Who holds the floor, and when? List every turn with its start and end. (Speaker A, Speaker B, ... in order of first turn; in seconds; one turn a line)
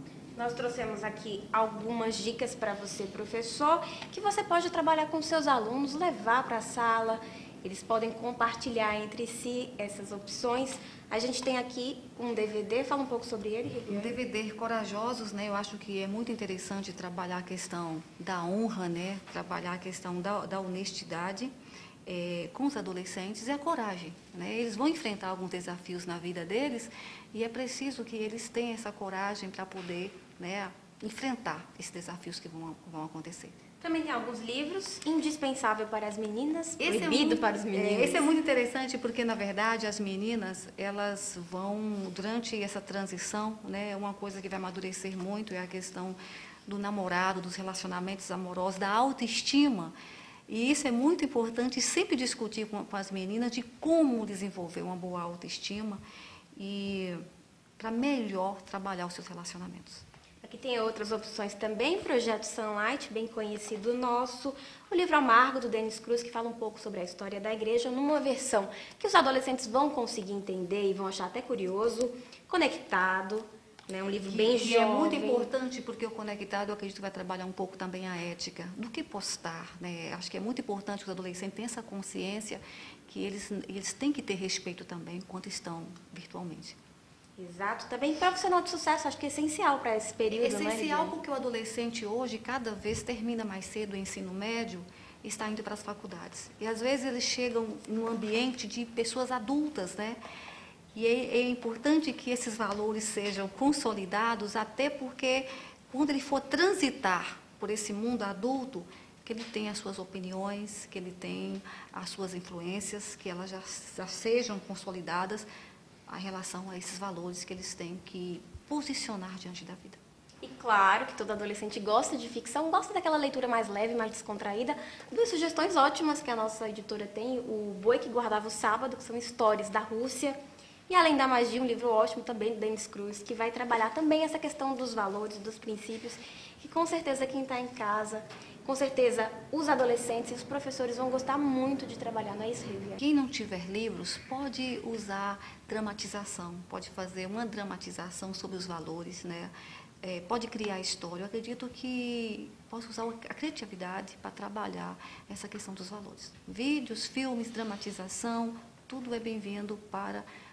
Speaker A: 0.4-14.2
Speaker B: 13.9-21.5
Speaker B: 22.1-33.6
Speaker A: 33.8-38.3
Speaker B: 36.8-49.9
Speaker B: 50.5-56.0
Speaker B: 56.6-57.2
Speaker B: 57.8-60.0
Speaker A: 60.4-75.5
Speaker B: 74.2-86.8
Speaker A: 87.4-91.2
Speaker B: 90.3-100.2
Speaker B: 100.9-115.5
Speaker B: 116.1-120.0
Speaker A: 120.4-130.4
Speaker A: 130.9-143.0
Speaker B: 143.0-160.2